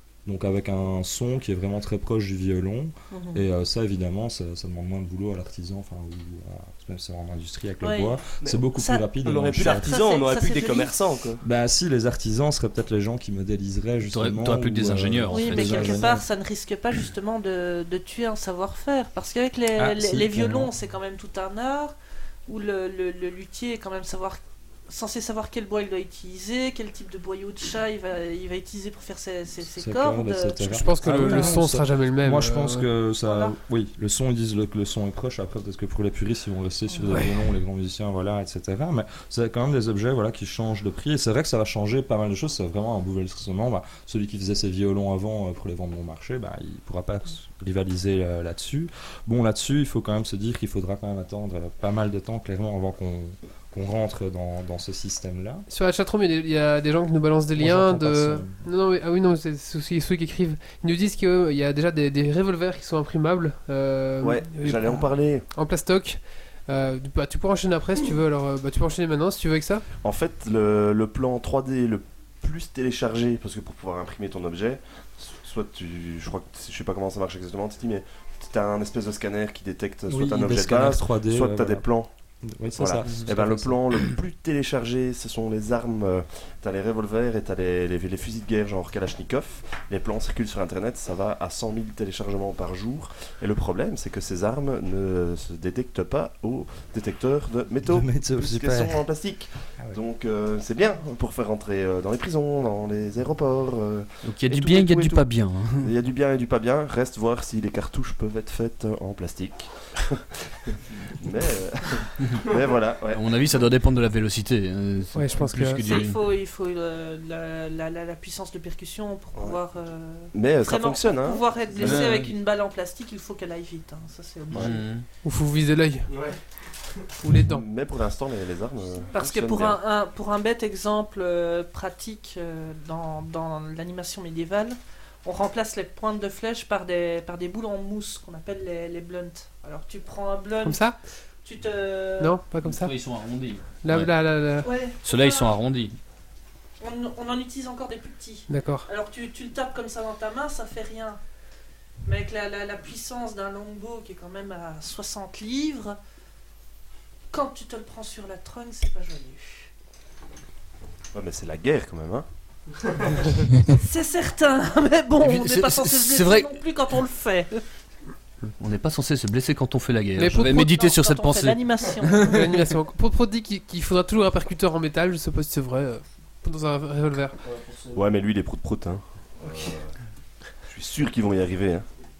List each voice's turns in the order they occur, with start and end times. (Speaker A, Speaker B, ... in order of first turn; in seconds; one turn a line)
Speaker A: 0.2-9.9
Speaker B: 3.1-3.4
Speaker B: 7.8-10.9
Speaker C: 9.2-11.4
Speaker A: 11.4-16.2
Speaker D: 14.1-16.1
Speaker B: 15.3-21.9
Speaker A: 19.8-20.7
Speaker B: 22.5-31.6
Speaker A: 29.8-55.6
Speaker E: 30.7-32.9
Speaker B: 33.2-33.5
Speaker B: 36.9-37.3
Speaker E: 55.7-69.8
Speaker A: 57.6-58.6
Speaker F: 64.2-65.4
Speaker F: 70.0-82.1
Speaker A: 80.1-81.8
Speaker A: 82.5-83.8
Speaker F: 82.8-105.2
Speaker A: 97.8-99.0
Speaker D: 104.2-105.9
Speaker F: 105.8-113.2
Speaker D: 113.1-116.2
Speaker E: 115.1-115.8
Speaker B: 115.8-124.8
Speaker F: 120.3-122.2
Speaker D: 121.8-122.3
Speaker F: 124.5-124.8
Speaker D: 124.5-125.0
Speaker E: 125.2-126.1
Speaker E: 127.2-127.6
Speaker F: 127.3-129.8
Speaker B: 129.1-140.9
Speaker E: 140.6-140.9
Speaker B: 141.4-142.3
Speaker E: 142.2-142.9
Speaker D: 142.6-144.1
Speaker E: 143.8-144.7
Speaker B: 144.6-145.5
Speaker D: 145.0-145.9
Speaker B: 146.8-151.2
Speaker E: 148.5-148.9
Speaker B: 152.0-156.0
Speaker B: 157.3-159.7
Speaker F: 161.1-162.2
Speaker B: 163.7-167.6
Speaker D: 165.2-166.6
Speaker D: 168.5-171.6
Speaker E: 170.2-170.6
Speaker B: 170.4-172.5
Speaker E: 172.2-177.3
Speaker F: 177.9-179.9
Speaker F: 180.7-181.8